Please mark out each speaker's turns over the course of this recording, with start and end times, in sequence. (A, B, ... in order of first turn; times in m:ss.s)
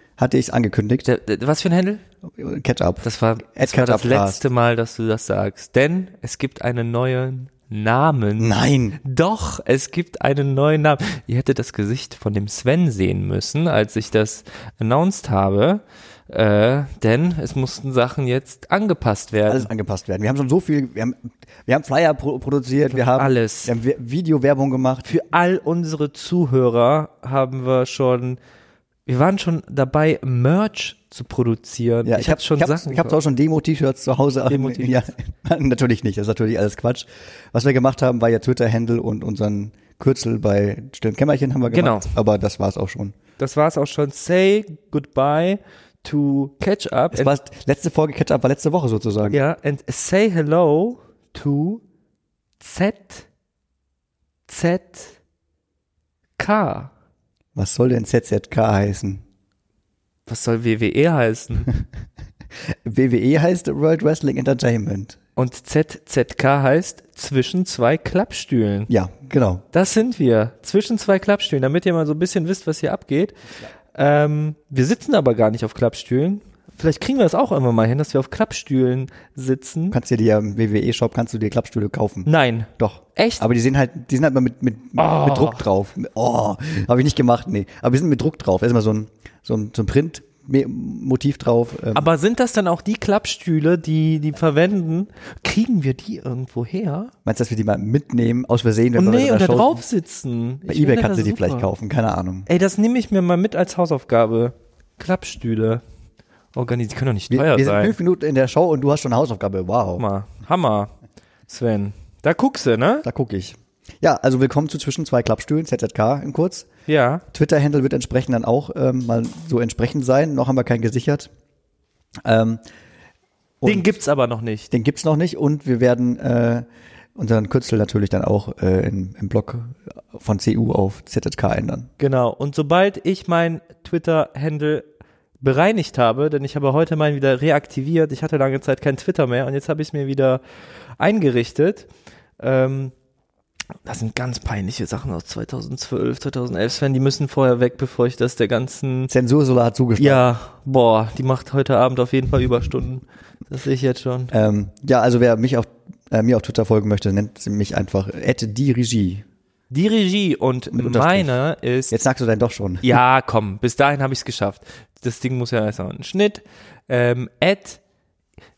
0:00.2-0:01.1 A
0:01.0-0:02.0 B
0:02.3-0:04.4 A
0:03.0-0:19.7 B
0:08.4-0:09.0 A
0:19.5-0:25.1 A
0:22.9-0:23.7 B
0:25.0-0:28.4 B
0:29.0-0:33.2 B
0:32.0-0:43.1 A
0:34.5-0:35.1 B
0:41.7-0:42.1 B
0:43.4-0:47.3 B
0:47.1-0:49.4 A
0:49.3-0:51.8 B
0:52.6-0:53.2 B
0:54.5-0:55.2 B
0:56.4-0:56.9 B
0:57.5-0:59.2 A
1:00.3-1:01.7 B
1:02.7-1:05.2 A
1:05.4-1:08.9 B
1:08.9-1:09.6 A
1:09.7-1:13.3 B
1:13.9-1:20.0 B
1:19.9-1:32.1 A
1:22.2-1:23.4 B
1:25.0-1:25.6 B
1:31.9-1:37.1 B
1:37.2-1:39.8 A
1:38.9-1:41.7 B
1:40.7-1:42.5 A
1:42.5-1:45.8 B
1:46.5-1:48.0 B
1:47.3-1:50.0 A
1:50.0-1:50.9 B
1:51.5-1:53.0 B
1:53.0-1:56.7 A
1:56.9-1:57.2 B
1:57.3-2:01.3 A
2:02.2-2:02.6 A
2:03.6-2:04.0 A
2:03.6-2:04.7 B
2:04.7-2:11.9 A
2:12.0-2:14.8 B
2:15.4-2:20.4 B
2:21.0-2:21.9 B
2:22.4-2:22.9 B
2:23.8-2:29.1 B
2:29.1-2:30.2 A
2:30.0-2:34.3 B
2:34.3-2:39.2 A
2:39.7-2:42.0 B
2:40.7-2:41.3 A
2:41.9-2:43.0 A
2:42.8-2:47.8 B